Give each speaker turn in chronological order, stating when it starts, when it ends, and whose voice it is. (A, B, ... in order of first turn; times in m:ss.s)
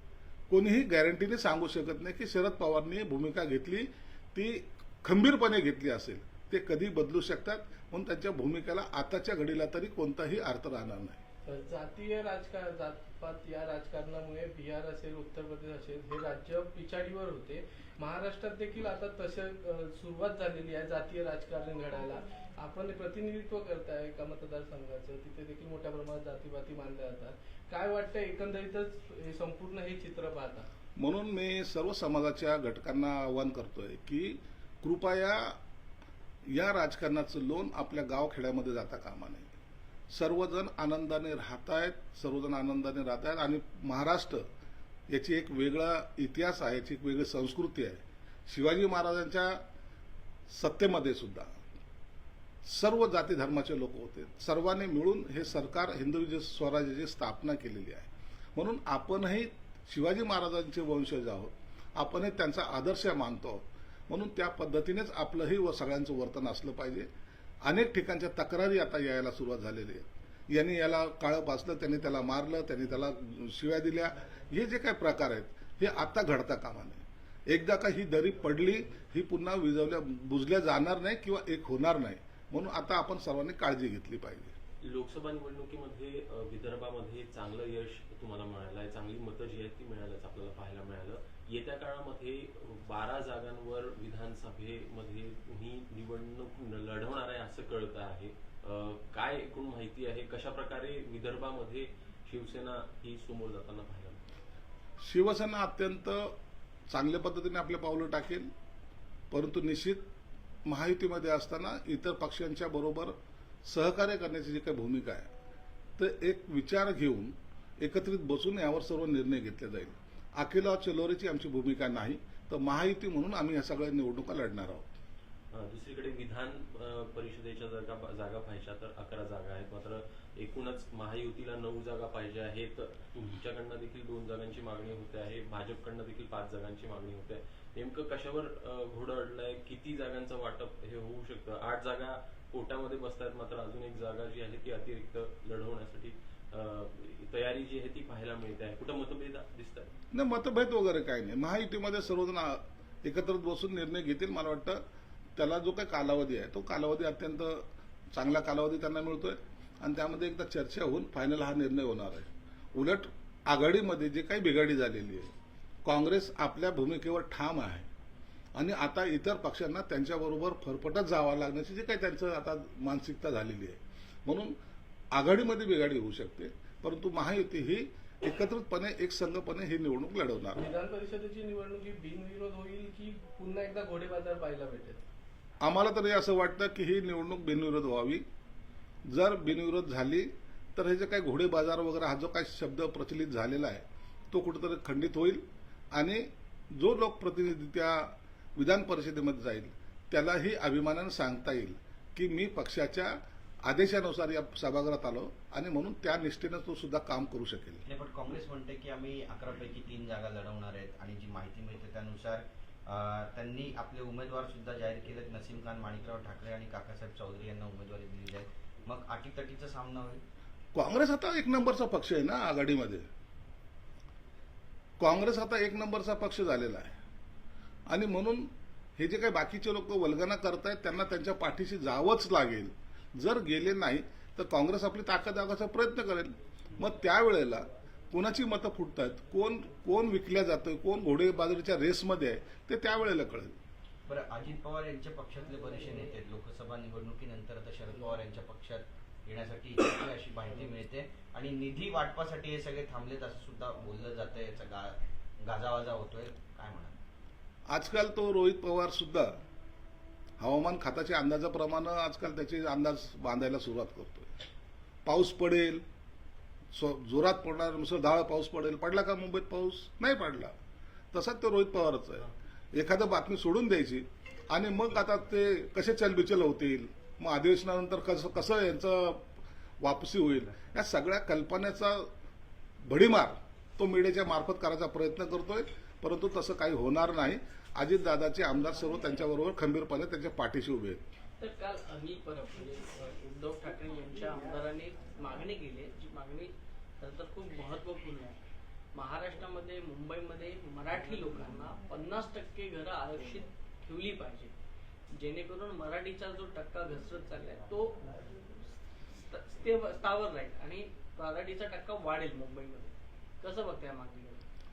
0:00.5-0:11.2 A
0:11.5-0:30.7 B
0:31.0-0:35.6 A
0:36.5-0:39.5 A
0:40.1-0:44.4 A
0:45.1-0:49.6 A
0:50.5-0:51.5 A
0:52.6-1:07.1 A
1:07.6-1:24.6 A
1:24.8-1:44.2 C
1:45.0-1:46.4 A
1:46.9-1:48.5 A
1:49.3-1:50.0 A
1:50.6-1:55.3 A
1:56.0-2:04.9 A
2:05.5-2:29.9 C
2:30.1-2:34.8 A
2:35.4-2:45.3 A
2:45.8-2:47.9 A
2:48.6-2:54.5 A
2:55.1-3:00.6 A
3:00.6-3:05.0 B
3:05.6-3:08.2 A
3:09.1-3:15.4 A
3:15.9-3:27.8 A
3:27.9-3:40.2 D
3:40.8-3:43.1 A
3:45.0-3:47.0 A
3:47.9-4:03.6 A
4:04.1-4:16.9 D
4:17.7-4:19.3 A
4:20.4-4:24.3 A
4:25.0-4:25.8 A
4:26.7-4:30.5 A
4:31.1-4:39.2 A
4:39.8-4:42.1 A
4:42.8-4:51.1 A
4:51.4-4:58.4 E
4:58.9-5:04.5 E
5:05.1-5:08.2 E
5:09.2-5:14.4 E